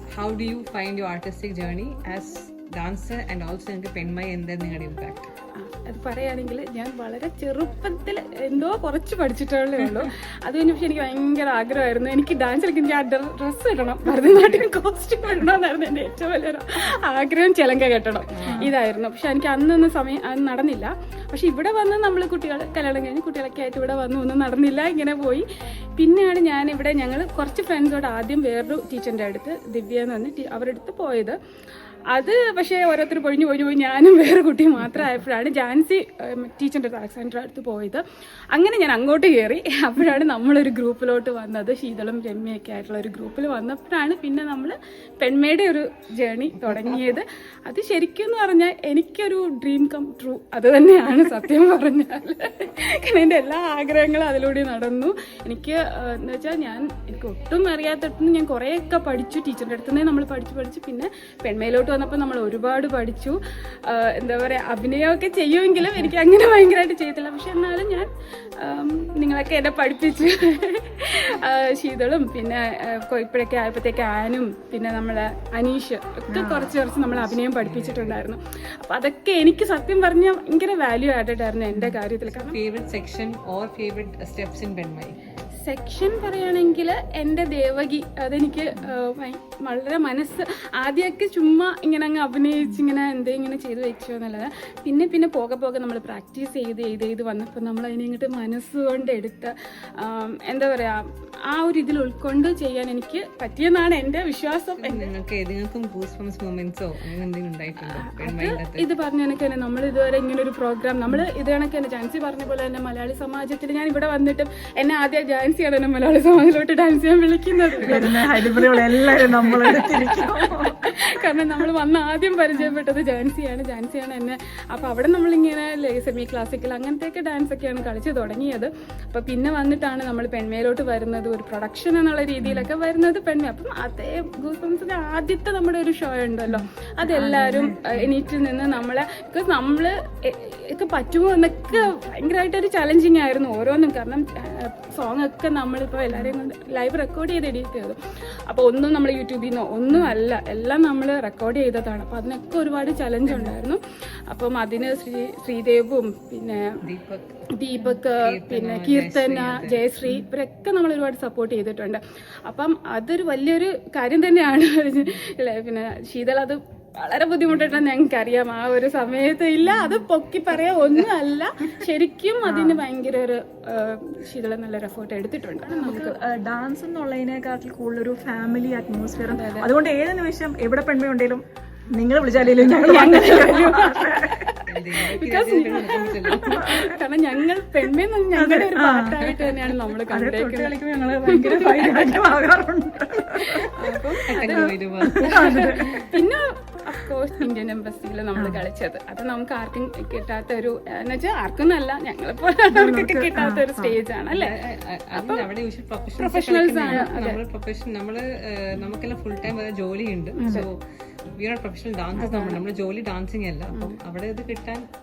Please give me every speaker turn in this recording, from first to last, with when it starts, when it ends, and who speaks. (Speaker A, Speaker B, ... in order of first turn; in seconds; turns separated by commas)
Speaker A: 0.1-5.3, Speaker B: 5.6-25.4, Speaker A: 18.4-18.7, Speaker B: 26.0-31.4, Speaker B: 32.1-38.0, Speaker B: 38.5-63.4, Speaker A: 46.7-47.0, Speaker B: 63.9-68.1, Speaker B: 68.6-82.6, Speaker C: 76.3-76.7, Speaker A: 77.1-78.2, Speaker A: 82.2-85.2, Speaker B: 85.6-101.0, Speaker B: 101.5-105.1, Speaker A: 104.8-108.8, Speaker B: 107.9-148.0, Speaker C: 117.8-121.6, Speaker C: 136.5-138.1, Speaker B: 148.5-153.8, Speaker B: 154.3-156.6, Speaker A: 156.8-157.3, Speaker B: 157.5-176.2, Speaker A: 157.9-159.8, Speaker C: 172.5-172.8, Speaker C: 175.7-184.4, Speaker B: 179.3-179.7, Speaker B: 182.6-192.2, Speaker A: 184.7-186.9, Speaker C: 186.4-186.9, Speaker C: 188.3-189.3, Speaker C: 190.1-196.2, Speaker B: 193.2-204.5, Speaker A: 194.3-195.9, Speaker C: 198.4-198.6, Speaker C: 202.7-204.0, Speaker A: 204.3-210.8, Speaker B: 205.1-205.4, Speaker B: 206.2-207.4, Speaker B: 210.4-210.7, Speaker A: 211.4-214.8, Speaker B: 212.2-212.6